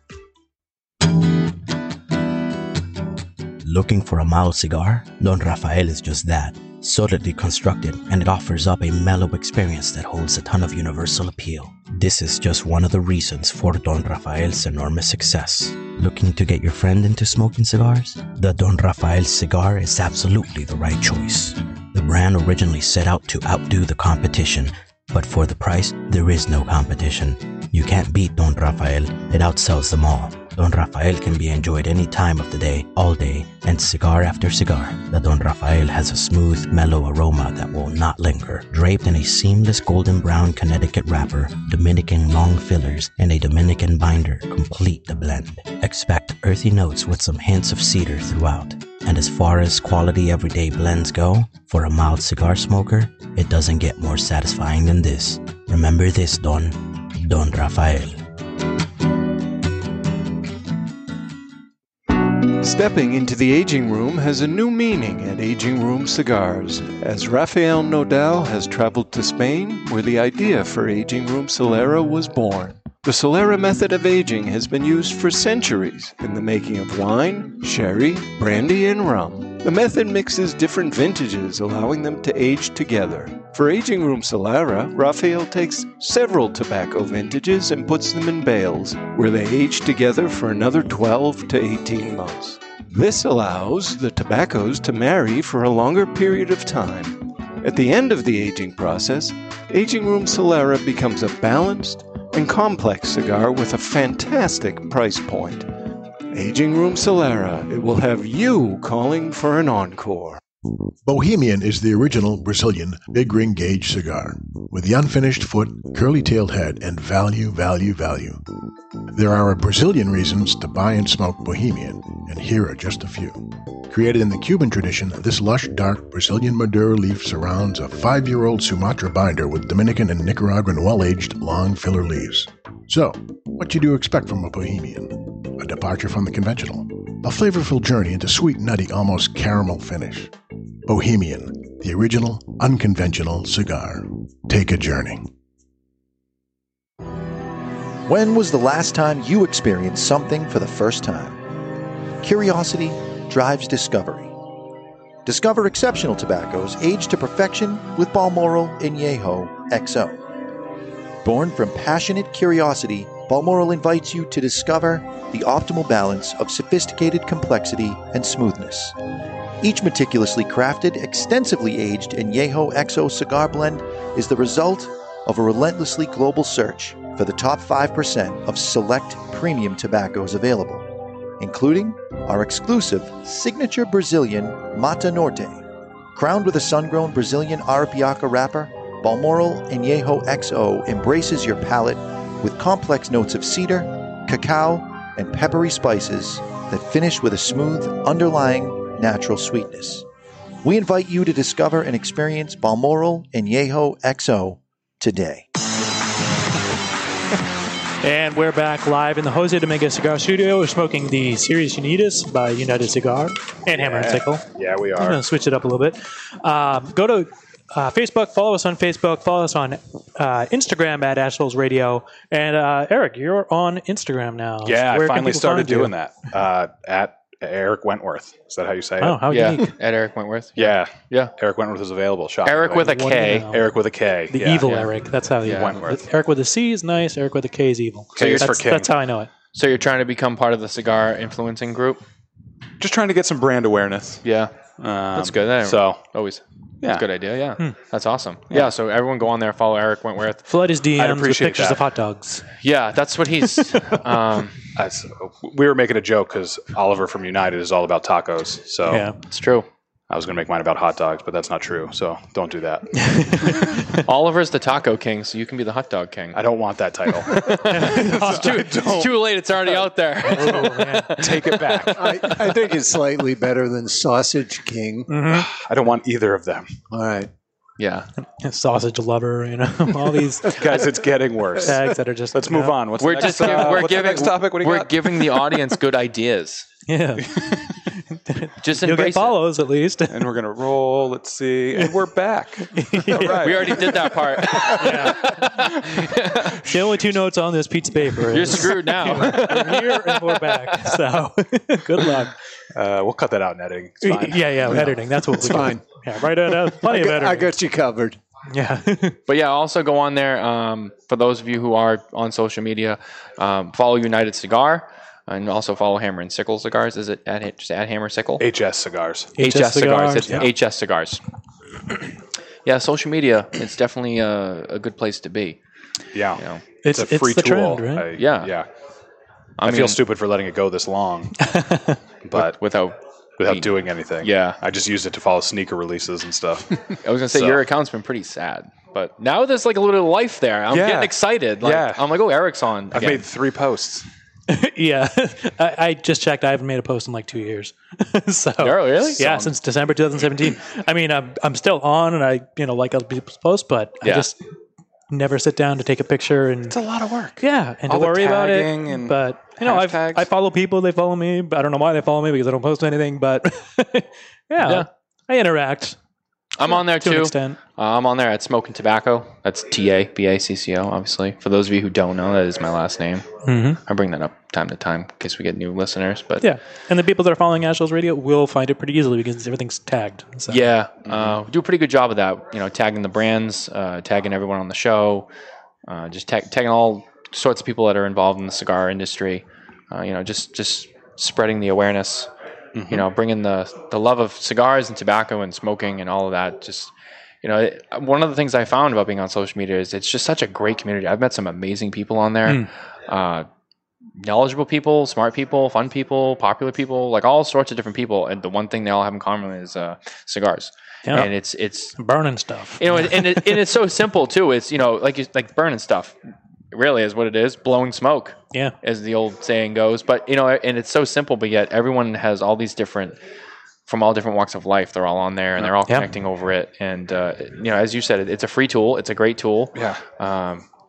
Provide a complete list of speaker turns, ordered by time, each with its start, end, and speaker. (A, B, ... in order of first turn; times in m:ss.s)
0:03.6-0:58.2 A
1:02.5-1:45.7 B
1:46.3-1:50.4 B
1:51.0-1:58.4 C
1:59.1-2:20.3 C
2:20.9-2:25.3 C
2:28.0-2:31.4 D
2:32.2-2:34.3 D
2:35.2-2:40.2 D
2:41.2-2:48.9 D
2:49.6-3:00.8 D
3:01.4-3:20.0 D
3:20.6-3:25.4 D
3:28.0-3:45.9 E
3:33.7-3:35.2 F
3:44.6-3:49.3 F
3:49.0-3:49.7 E
3:49.3-3:51.3 G
3:50.6-3:54.9 F
3:52.4-3:53.5 G
3:52.7-3:53.7 E
3:54.3-3:59.3 E
3:55.4-3:56.0 F
3:55.4-3:55.8 G
3:58.2-3:58.5 G
3:58.2-3:59.0 F
3:59.5-4:02.0 G
4:02.8-4:04.2 F
4:04.2-4:04.5 G
4:04.8-4:06.0 F
4:05.1-4:10.4 G
4:06.8-4:07.1 F
4:10.5-4:12.5 E
4:10.9-4:11.8 F
4:12.6-4:14.6 G
4:14.8-4:19.1 F
4:18.9-4:19.2 E
4:19.3-4:19.6 G
4:20.1-4:23.6 F
4:23.0-4:24.0 E
4:24.0-4:26.4 G
4:26.3-4:29.2 F
4:27.3-4:28.9 E
4:27.5-4:31.9 G
4:30.2-4:31.3 E
4:31.2-4:32.3 F
4:31.9-4:35.2 H
4:35.1-4:35.5 E
4:35.3-4:36.7 F
4:36.9-4:37.3 H
4:37.8-4:38.1 G
4:38.4-4:40.8 E
4:40.5-4:45.7 F
4:41.6-4:43.8 E
4:43.0-4:46.7 G
4:46.8-4:50.3 E
4:48.6-4:49.4 G
4:50.1-4:57.1 F
4:51.7-4:52.0 E
4:52.7-4:55.5 E
4:53.4-4:56.6 G
4:56.6-5:02.3 E
4:58.3-5:00.9 G
5:02.7-5:05.1 F
5:04.0-5:07.5 E
5:04.7-5:05.9 H
5:06.5-5:08.2 H
5:08.5-5:09.2 E
5:09.3-5:18.4 G
5:18.4-5:19.3 F
5:19.4-5:20.5 E
5:19.4-5:21.2 G
5:22.6-5:25.6 G
5:26.1-5:28.7 F
5:26.4-5:26.6 G
5:26.8-5:28.1 E
5:28.1-5:28.5 G
5:29.6-5:30.0 G
5:29.6-5:31.4 F
5:31.4-5:32.0 E
5:32.2-5:32.6 F
5:32.3-5:34.6 G
5:33.4-5:37.6 F
5:37.0-5:43.3 G
5:40.7-5:42.3 F
5:42.9-5:44.1 F
5:44.5-5:54.4 E
5:48.6-5:49.2 G
5:49.2-5:49.5 F
5:54.0-5:54.3 G
5:55.1-5:56.8 E
5:56.7-6:00.3 F
5:57.4-6:06.0 E
6:04.6-6:04.9 G
6:06.5-6:16.5 G
6:06.6-6:07.6 E
6:13.4-6:13.8 E
6:16.4-6:20.7 E
6:20.5-6:25.3 G
6:21.0-6:21.4 F
6:25.8-6:32.3 G
6:32.7-6:33.1 F
6:32.9-6:43.5 G
6:44.2-6:52.0 G
6:51.0-6:51.3 E
6:51.9-6:53.6 E
6:52.8-6:56.1 G
6:56.7-7:03.2 G
7:03.8-7:10.6 G
7:09.7-7:10.0 F